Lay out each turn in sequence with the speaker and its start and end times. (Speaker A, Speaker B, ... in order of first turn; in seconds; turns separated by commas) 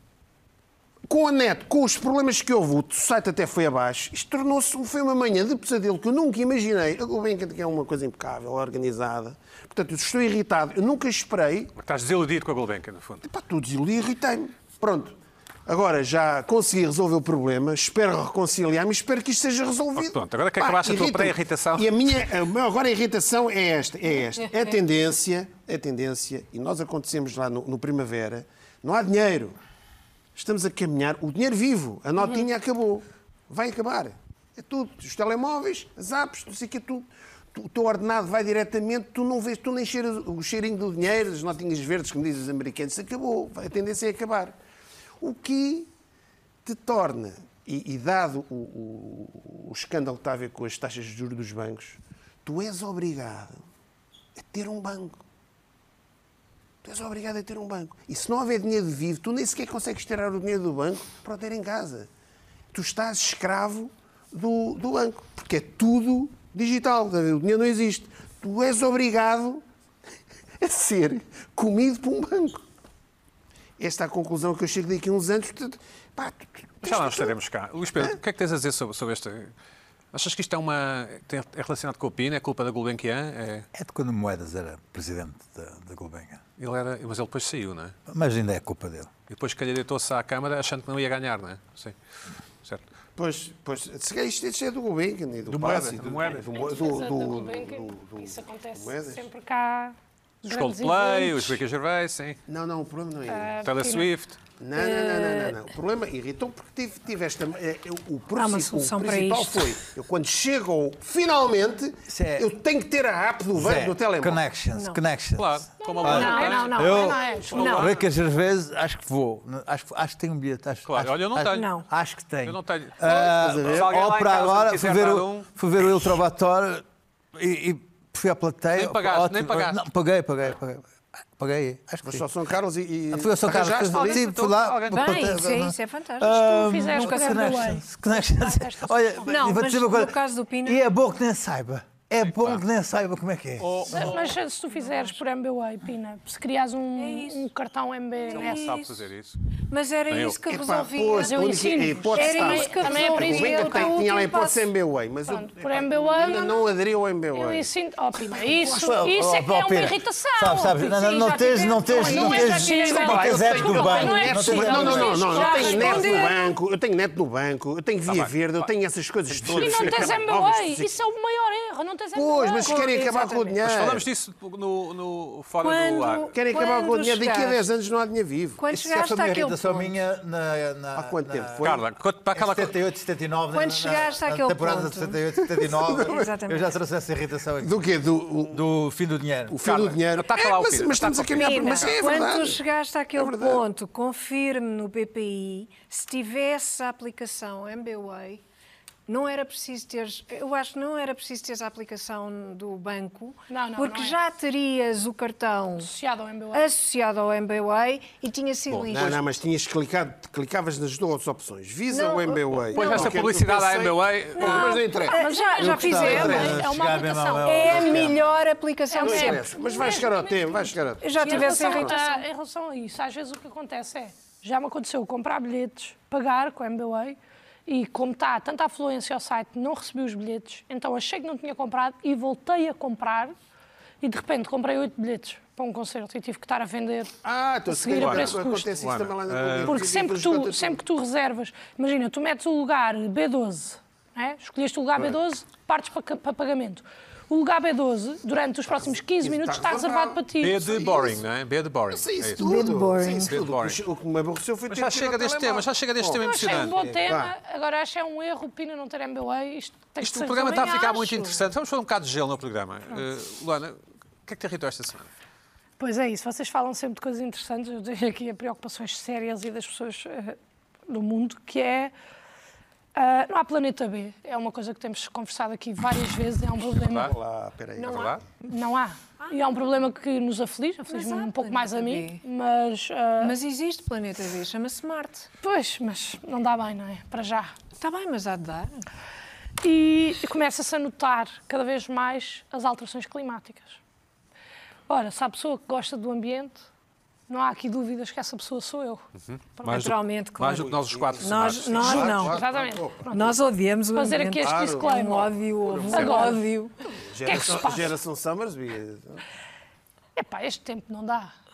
Speaker A: 1.1-11.7, Speaker B: 11.8-13.2, Speaker A: 13.2-29.6, Speaker B: 19.9-21.9, Speaker A: 30.3-44.5, Speaker A: 45.2-45.9, Speaker A: 46.6-53.6, Speaker A: 54.4-55.2, Speaker A: 56.8-62.1, Speaker A: 62.7-69.6, Speaker A: 70.6-72.6, Speaker A: 73.8-77.3, Speaker B: 76.8-79.5, Speaker B: 80.1-83.7, Speaker C: 83.7-86.4, Speaker B: 86.6-87.9, Speaker C: 88.1-89.1, Speaker B: 89.3-92.0, Speaker A: 93.2-99.2, Speaker B: 95.5-96.5, Speaker D: 96.5-101.6, Speaker B: 100.5-102.4, Speaker A: 102.5-103.6, Speaker D: 103.3-104.1, Speaker B: 103.6-104.4, Speaker A: 104.6-114.4, Speaker E: 104.7-105.6, Speaker E: 108.3-109.8, Speaker C: 112.1-112.5, Speaker C: 113.5-132.2, Speaker E: 114.7-115.0, Speaker B: 115.3-118.0, Speaker D: 115.8-117.8, Speaker E: 116.0-117.9, Speaker B: 120.8-121.7, Speaker E: 121.5-121.8, Speaker B: 122.4-125.5, Speaker A: 123.1-124.0, Speaker B: 128.7-129.8, Speaker A: 132.0-134.2, Speaker C: 133.1-143.9, Speaker B: 133.6-135.3, Speaker E: 134.9-140.8, Speaker D: 136.3-137.9, Speaker B: 142.2-142.6, Speaker B: 143.6-144.3, Speaker D: 143.9-148.7, Speaker E: 144.7-145.2, Speaker E: 147.0-147.5, Speaker E: 148.3-148.9, Speaker B: 148.3-149.4, Speaker E: 149.7-151.5, Speaker B: 150.1-150.4, Speaker A: 150.5-157.7, Speaker D: 151.1-154.0, Speaker E: 152.1-154.7, Speaker D: 155.3-156.6, Speaker D: 157.3-166.5, Speaker C: 158.5-165.2, Speaker A: 161.9-170.9, Speaker E: 162.4-163.0, Speaker E: 164.4-166.4, Speaker B: 168.1-168.7, Speaker B: 169.3-170.2, Speaker D: 169.5-172.9, Speaker A: 172.1-174.1, Speaker E: 172.6-173.6, Speaker B: 173.6-176.3, Speaker E: 175.6-177.6, Speaker A: 176.3-178.7, Speaker E: 178.6-179.9, Speaker C: 178.7-181.7, Speaker A: 180.9-181.8, Speaker B: 181.6-182.8, Speaker C: 182.3-187.8, Speaker E: 183.5-185.2, Speaker A: 185.5-186.3, Speaker E: 185.9-186.7, Speaker A: 187.6-188.6, Speaker C: 188.5-189.6, Speaker A: 189.5-192.6, Speaker B: 189.6-192.0, Speaker E: 191.3-198.4, Speaker A: 193.1-193.6, Speaker E: 199.1-205.9, Speaker D: 203.5-204.2, Speaker D: 205.8-206.7, Speaker E: 206.5-209.2, Speaker B: 208.7-209.2, Speaker A: 208.9-216.6, Speaker E: 211.9-213.2, Speaker B: 212.7-214.8, Speaker E: 214.4-216.7, Speaker D: 215.1-218.0, Speaker C: 215.6-218.3, Speaker E: 217.4-219.6, Speaker D: 218.9-233.3, Speaker A: 219.0-221.9, Speaker E: 221.0-222.2, Speaker D: 234.0-237.1, Speaker A: 237.2-240.8, Speaker D: 237.7-238.7, Speaker B: 237.9-239.8, Speaker D: 239.7-250.6, Speaker A: 248.8-251.2, Speaker B: 250.4-252.4, Speaker A: 251.9-257.3, Speaker E: 252.4-253.4, Speaker B: 253.2-253.8, Speaker B: 254.7-256.9, Speaker D: 256.2-261.3, Speaker B: 260.0-265.1, Speaker E: 260.6-261.3, Speaker D: 265.8-271.9, Speaker D: 272.9-277.1, Speaker B: 276.8-277.1, Speaker A: 277.0-278.2, Speaker B: 277.8-278.2, Speaker D: 278.4-283.4, Speaker E: 280.9-282.2, Speaker E: 283.2-285.3, Speaker D: 285.4-287.6, Speaker E: 287.8-288.8, Speaker D: 289.6-293.8, Speaker D: 294.9-296.7, Speaker D: 297.3-299.1, Speaker B: 299.3-302.3, Speaker D: 299.6-299.9, Speaker E: 299.6-302.4, Speaker A: 300.6-303.1, Speaker D: 301.9-303.4, Speaker E: 303.1-306.7, Speaker D: 303.9-306.4, Speaker A: 304.4-304.9, Speaker A: 305.7-306.4, Speaker A: 306.9-309.2, Speaker D: 307.2-307.9, Speaker D: 310.1-311.3